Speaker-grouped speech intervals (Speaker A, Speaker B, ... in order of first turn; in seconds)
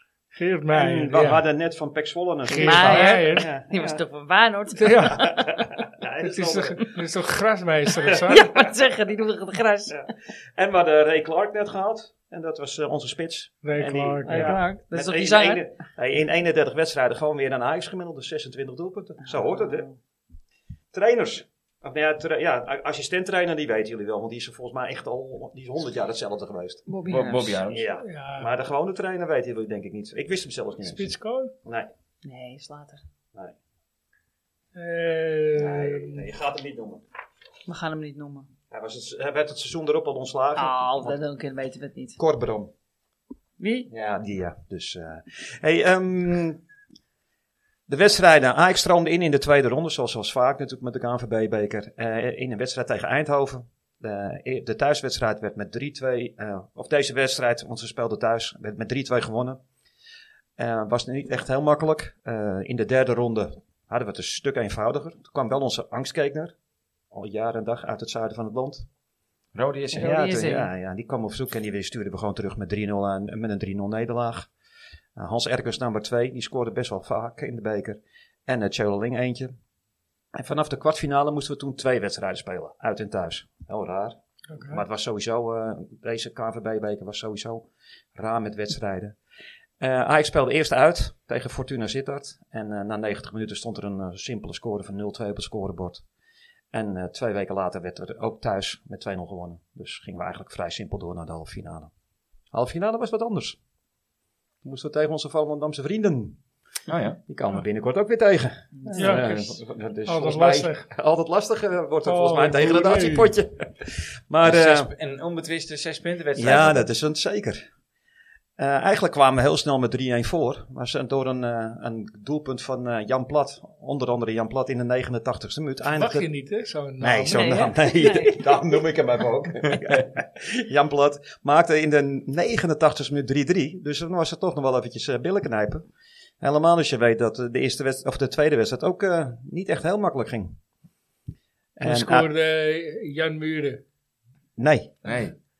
Speaker A: 0.3-1.4, 2.5-3.5, 4.8-5.4, 6.2-8.5, 13.6-14.6, 28.0-28.5, 30.8-31.5, 34.7-36.2, 84.5-84.8, 108.9-109.4, 110.0-110.9, 112.0-113.3, 125.9-127.7, 141.8-143.8
Speaker B: 0.7-4.0, 5.1-7.0, 9.9-19.9, 20.9-26.8, 27.7-31.1, 31.6-31.9, 35.5-37.0, 38.7-41.2, 42.2-42.7, 43.9-46.6, 47.9-59.6, 60.6-66.5, 67.1-68.9, 69.9-74.5, 75.2-79.5, 80.3-89.2, 89.8-96.0, 96.7-101.9, 102.5-103.6, 104.6-106.4, 107.3-114.9, 116.4-117.6, 118.6-126.3, 127.0-135.9, 136.4-140.6, 141.8-142.3, 144.6-144.9
Speaker C: 2.5-5.4, 8.3-10.0, 14.2-15.7, 19.2-19.9, 26.9-27.6, 32.2-33.0, 37.6-38.5, 40.5-42.2, 43.6-43.9, 69.9-70.7, 108.7-109.5, 127.3-128.8
Speaker D: 27.1-27.9, 69.5-70.1, 106.9-107.2, 114.4-116.9, 145.0-145.4